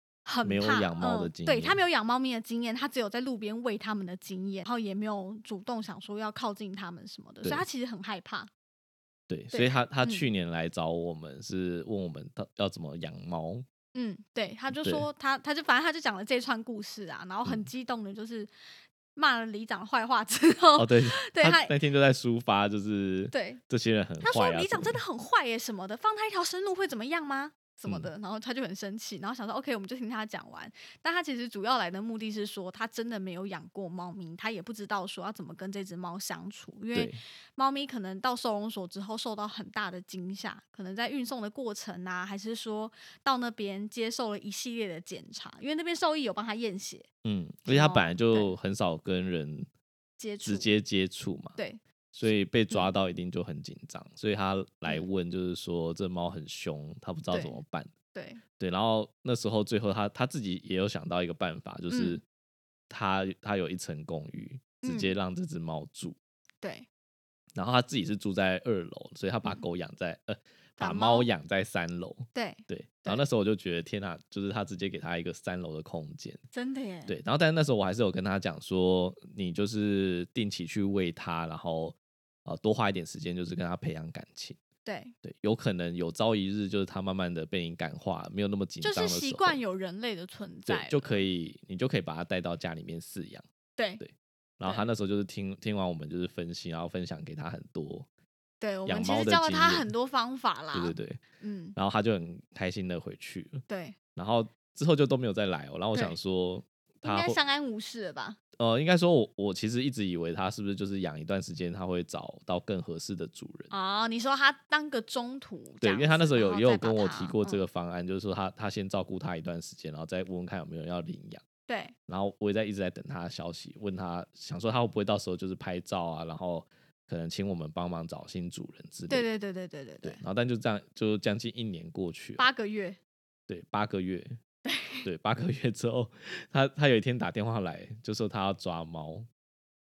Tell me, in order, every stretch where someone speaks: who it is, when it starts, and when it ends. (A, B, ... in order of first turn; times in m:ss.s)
0:00.2-0:08.5 A
0:00.4-0:01.8 B
0:09.3-0:13.6 B
0:09.5-0:10.3 A
0:13.9-0:18.5 A
0:14.8-0:15.0 B
0:19.1-0:21.7 A
0:20.8-0:25.0 B
0:23.3-0:23.6 A
0:24.2-0:47.1 A
0:36.9-0:37.2 B
0:47.2-0:49.7 B
0:47.7-0:48.5 A
0:50.2-0:50.7 A
0:50.4-0:51.6 B
0:51.6-0:51.8 A
0:52.1-0:57.9 B
0:57.3-0:57.6 A
0:58.1-0:58.4 A
0:58.6-1:02.2 B
1:01.9-1:02.2 A
1:02.9-1:06.2 B
1:04.8-1:05.1 A
1:06.6-1:06.8 A
1:07.6-1:16.4 B
1:10.8-1:11.2 A
1:12.3-1:13.2 A
1:16.5-1:17.1 A
1:17.1-1:24.6 B
1:24.8-1:25.1 A
1:25.2-1:29.6 B
1:28.8-1:31.1 A
1:30.7-1:33.4 B
1:33.8-1:34.0 A
1:34.0-1:38.1 B
1:38.6-1:41.8 A
1:38.8-1:39.9 B
1:40.7-1:41.2 B
1:41.8-1:43.6 B
1:43.7-1:44.0 A
1:44.2-1:47.4 B
1:47.0-1:48.4 A
1:48.6-1:53.7 B
1:53.7-1:57.6 A
1:55.8-2:01.4 B
2:01.7-2:01.9 A
2:02.1-2:09.3 B
2:09.1-2:10.2 A
2:10.0-2:12.4 B
2:12.4-2:13.0 A
2:13.5-2:14.4 B
2:14.6-2:15.0 A
2:15.0-2:19.3 B